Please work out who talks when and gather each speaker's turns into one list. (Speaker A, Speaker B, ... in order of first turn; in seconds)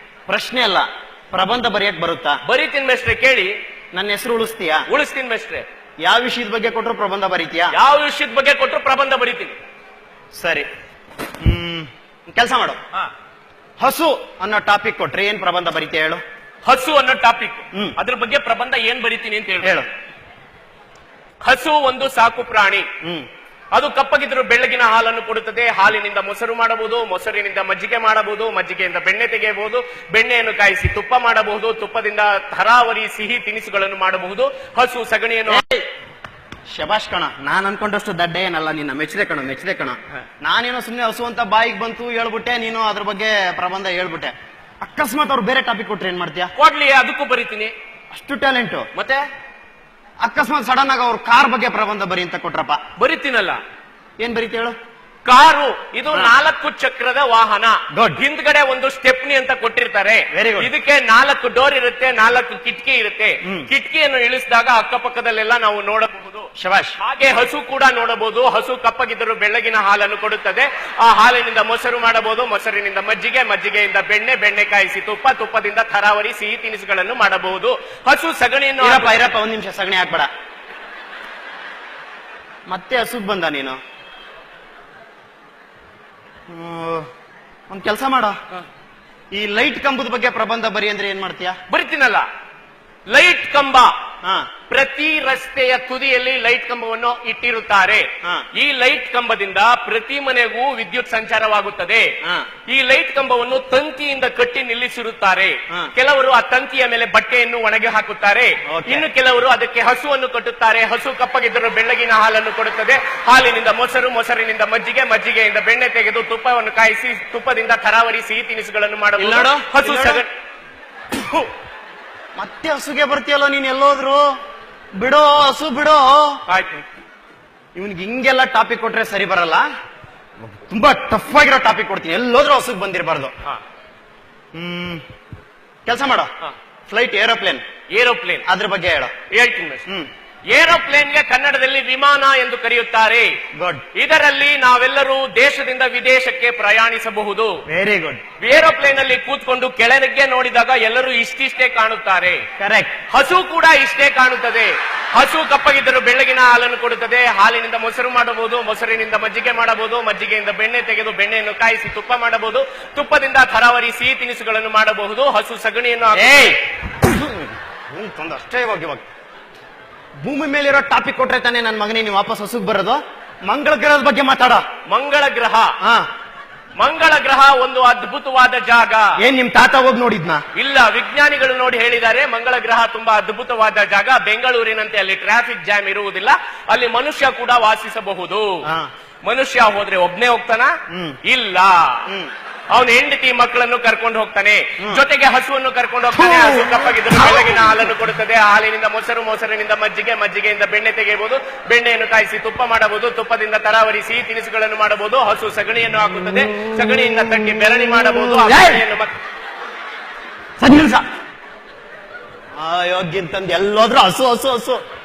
Speaker A: 0.3-2.4, 3.9-4.8, 6.0-7.7, 10.3-10.7, 11.4-12.8, 13.8-16.2, 19.6-19.9, 23.0-23.3, 35.5-35.9, 36.7-46.5, 48.1-48.9, 50.2-52.8, 54.2-54.8, 57.9-58.2, 60.3-60.7, 66.6-67.0, 78.8-80.3, 82.7-83.8, 86.5-87.1, 87.7-88.4, 89.3-91.6, 94.2-94.5, 108.7-109.1, 119.2-120.2, 122.4-124.4, 125.0-126.4, 127.8-129.7, 130.5-133.3, 134.5-135.0, 135.9-136.3, 136.9-137.6, 138.5-139.1, 143.6-143.8, 147.7-148.2, 152.6-153.0, 166.1-169.1, 170.2-174.6, 175.8-176.1, 179.2-180.4, 190.9-191.2, 208.4-208.8, 210.6-211.1, 212.6-214.8
Speaker B: 2.5-3.5, 4.9-5.7, 7.7-9.6, 16.6-19.8, 21.4-22.9, 23.7-35.7, 46.6-47.7, 49.0-49.3, 53.0-53.6, 55.2-79.2, 91.7-92.3, 93.1-93.9, 94.7-102.1, 102.7-120.3, 121.2-121.5, 126.5-126.8, 137.9-138.4, 139.3-139.8, 140.5-143.3, 143.9-147.6, 148.4-152.4, 153.1-166.6, 174.9-175.7, 176.8-179.2, 180.6-188.6, 189.2-190.7, 191.2-192.0, 192.7-209.1